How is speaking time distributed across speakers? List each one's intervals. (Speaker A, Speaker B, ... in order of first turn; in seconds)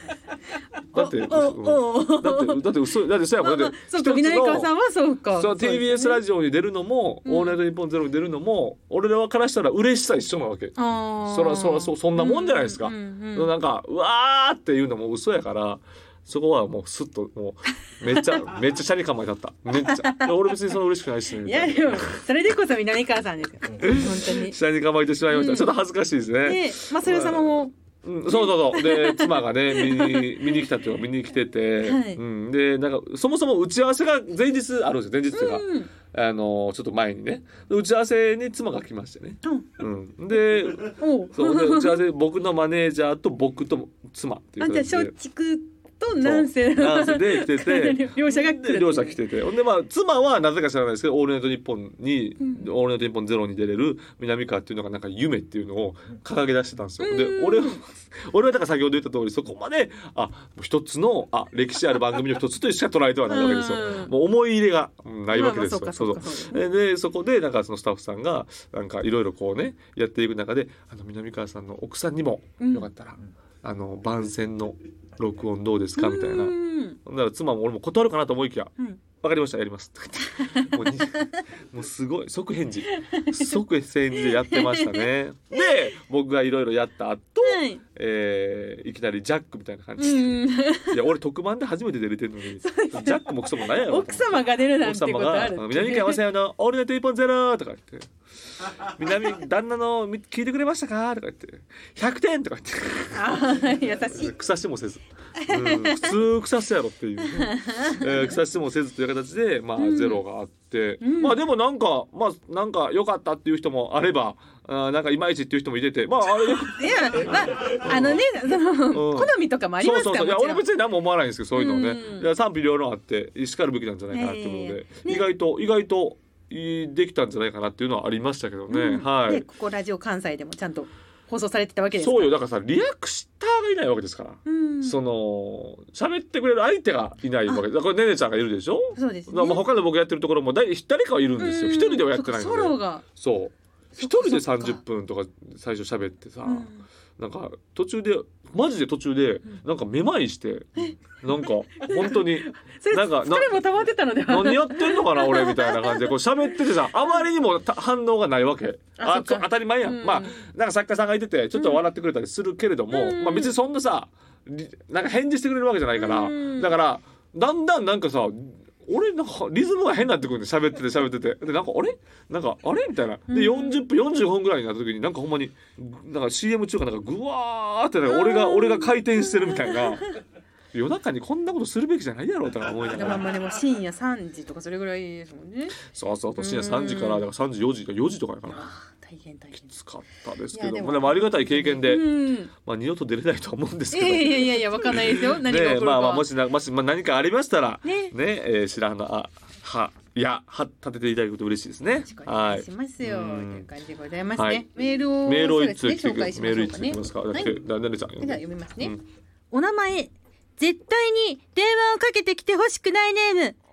Speaker A: 0.9-4.7, 5.3-22.2, 23.8-45.1, 46.2-98.1, 98.6-103.3, 104.0-118.3, 118.9-129.4, 132.0-153.6, 154.3-180.1, 180.7-183.3, 185.8-188.7, 189.6-203.7, 204.4-204.7, 205.2-209.0
Speaker B: 0.9-2.7, 3.4-6.2, 7.2-7.6, 10.8-13.5, 18.1-18.4, 19.8-20.7, 21.4-24.6, 25.3-25.8, 26.4-27.7, 28.3-30.7, 31.8-32.2, 35.3-35.9, 39.4-39.7, 41.0-42.0, 44.6-49.2, 52.4-52.7, 57.0-57.8, 63.3-64.1, 65.3-66.6, 72.6-72.9, 76.0-77.0, 80.4-81.3, 82.9-83.6, 84.2-85.1, 87.4-87.8, 90.0-91.0, 92.6-96.2, 103.1-104.3, 105.5-106.2, 107.2-108.4, 109.8-110.2, 111.0-111.4, 116.3-120.7, 121.5-122.3, 124.1-125.3, 128.7-132.3, 134.4-135.0, 139.0-139.6, 141.4-143.0, 144.0-144.8, 146.4-146.8, 150.8-157.2, 159.0-160.4, 161.5-161.8, 162.9-163.6, 165.9-166.7, 173.3-173.8, 178.1-180.1, 182.9-185.8, 186.4-187.3, 188.5-189.7, 190.5-192.5, 193.9-196.3, 197.8-198.1, 202.0-207.6, 208.2-208.9, 209.5-213.6